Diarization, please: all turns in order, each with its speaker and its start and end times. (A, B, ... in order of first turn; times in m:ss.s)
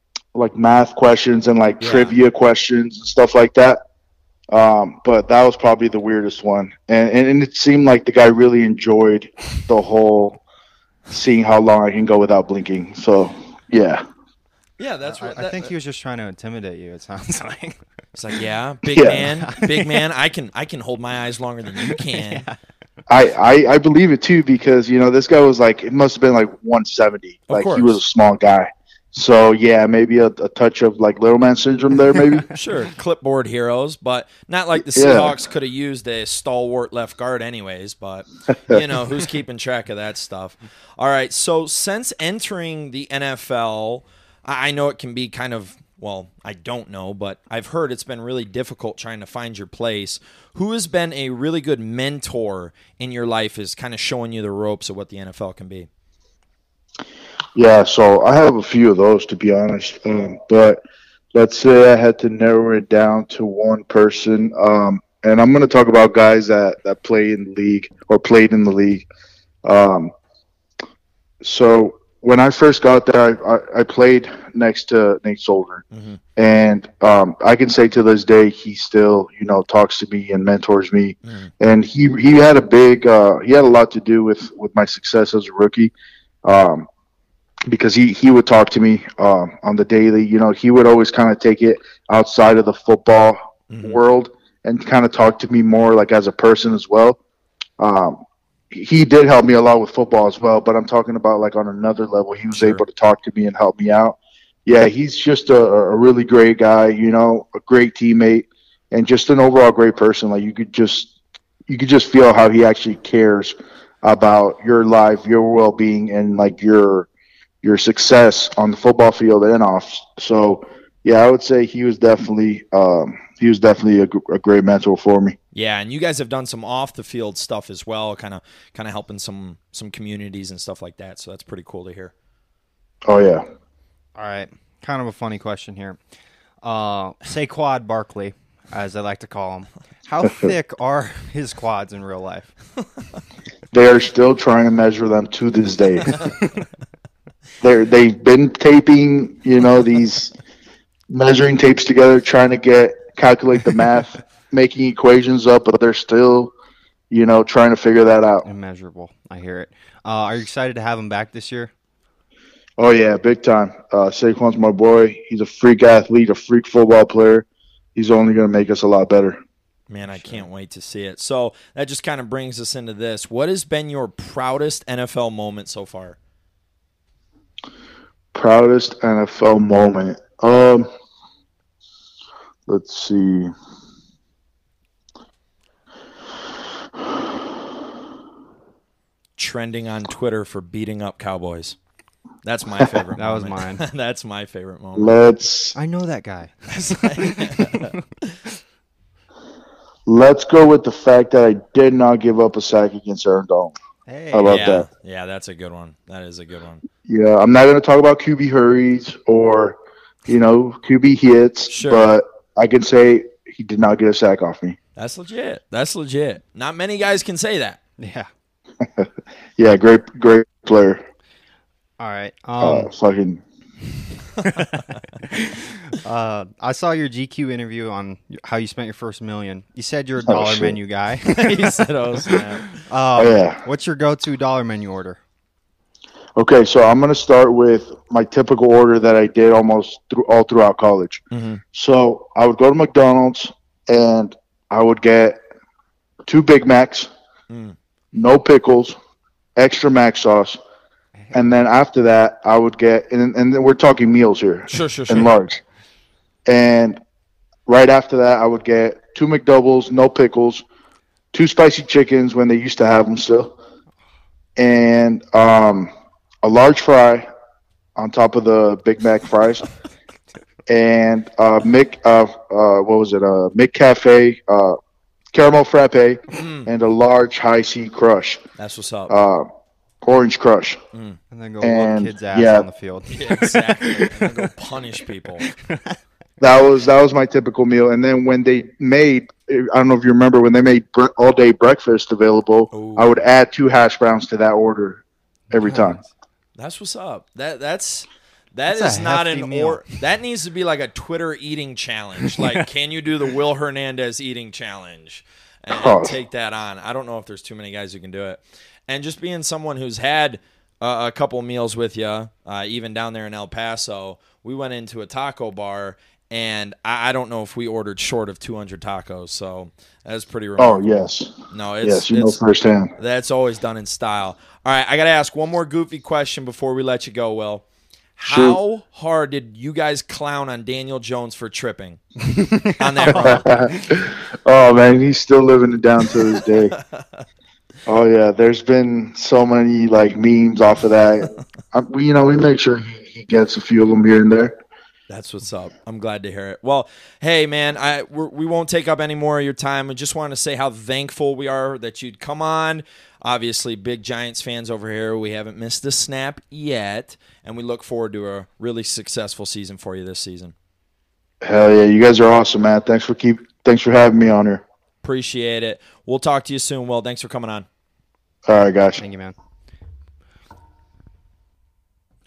0:00.3-0:03.8 A
0:01.8-0:02.1 B
0:04.5-0:10.4 A
0:11.1-0:14.0 A
0:14.8-0:15.7 B
0:15.1-0:17.7 C
0:18.1-0:22.4 B
0:18.9-0:19.3 A
0:23.1-0:32.5 A
0:27.5-0:28.0 B
0:32.5-0:55.9 B
0:34.8-0:35.4 A
0:57.5-1:00.8 A
1:01.3-1:09.0 A
1:09.6-1:10.1 A
1:11.4-1:15.8 A
1:15.9-1:16.2 B
1:16.4-1:25.9 A
1:21.2-1:21.5 B
1:26.4-1:26.9 A
1:27.7-1:37.2 A
1:33.7-1:34.0 B
1:37.8-1:51.1 A
1:42.5-1:42.8 B
1:51.7-1:57.1 A
1:57.6-2:05.4 A
2:05.5-2:12.1 B
2:13.0-2:13.4 A
2:14.2-2:16.0 C
2:16.6-2:22.5 C
2:23.7-2:26.3 A
2:27.6-2:30.3 A
2:31.1-2:36.5 A
2:37.1-2:38.4 A
2:38.4-2:41.7 C
2:42.8-2:49.4 A
2:49.9-2:56.2 B
2:50.1-2:50.4 C
2:58.3-3:00.9 A
3:02.7-3:03.5 A
3:09.4-3:11.8 B
3:12.4-3:15.2 B
3:13.2-3:13.8 C
3:14.9-3:15.8 A
3:15.8-3:17.8 C
3:16.7-3:17.9 B
3:20.0-3:23.7 A
3:24.1-3:24.7 C
3:24.3-3:24.9 A
3:24.4-3:26.8 B
3:27.0-3:34.8 A
3:31.7-3:32.1 B
3:35.0-3:37.8 B
3:38.0-3:38.3 C
3:39.6-3:41.0 A
3:42.0-3:42.9 C
3:42.6-3:43.4 A
3:46.0-3:51.8 C
3:50.2-3:50.8 A
3:51.2-3:52.8 B
3:52.8-3:55.2 C
3:53.2-3:53.6 A
3:56.4-4:01.2 A
4:01.3-4:01.6 B
4:01.7-4:05.4 A
4:06.2-4:07.1 A
4:07.5-4:07.8 B
4:08.1-4:08.9 A
4:09.6-4:10.6 A
4:11.3-4:15.6 A
4:14.7-4:15.3 B
4:16.5-4:17.0 A
4:17.6-4:20.6 A
4:21.3-4:23.6 A
4:24.6-4:25.9 A
4:26.4-4:27.3 A
4:28.0-4:29.7 A
4:30.7-4:34.8 A
4:35.3-4:38.4 A
4:36.3-4:36.7 B
4:38.6-4:39.1 B
4:39.1-4:39.4 A
4:40.0-4:40.8 A
4:40.9-4:41.2 B
4:41.3-4:44.3 C
4:41.6-4:42.7 A
4:43.1-4:45.4 B
4:46.4-4:56.0 A
4:52.7-4:53.3 B
4:55.6-4:56.0 C
4:56.6-5:20.9 B
4:58.7-4:59.8 C
5:05.7-5:06.2 A
5:20.6-5:22.9 A
5:21.5-5:22.4 B
5:23.0-5:32.0 B
5:28.2-5:28.6 A
5:32.6-5:33.4 C
5:32.6-5:33.5 B
5:33.1-5:36.8 A
5:36.7-5:37.2 B
5:37.8-5:44.5 A
5:45.1-6:00.5 B
6:01.4-6:04.6 A
6:05.0-6:07.7 B
6:08.5-6:09.0 A
6:09.0-6:09.3 C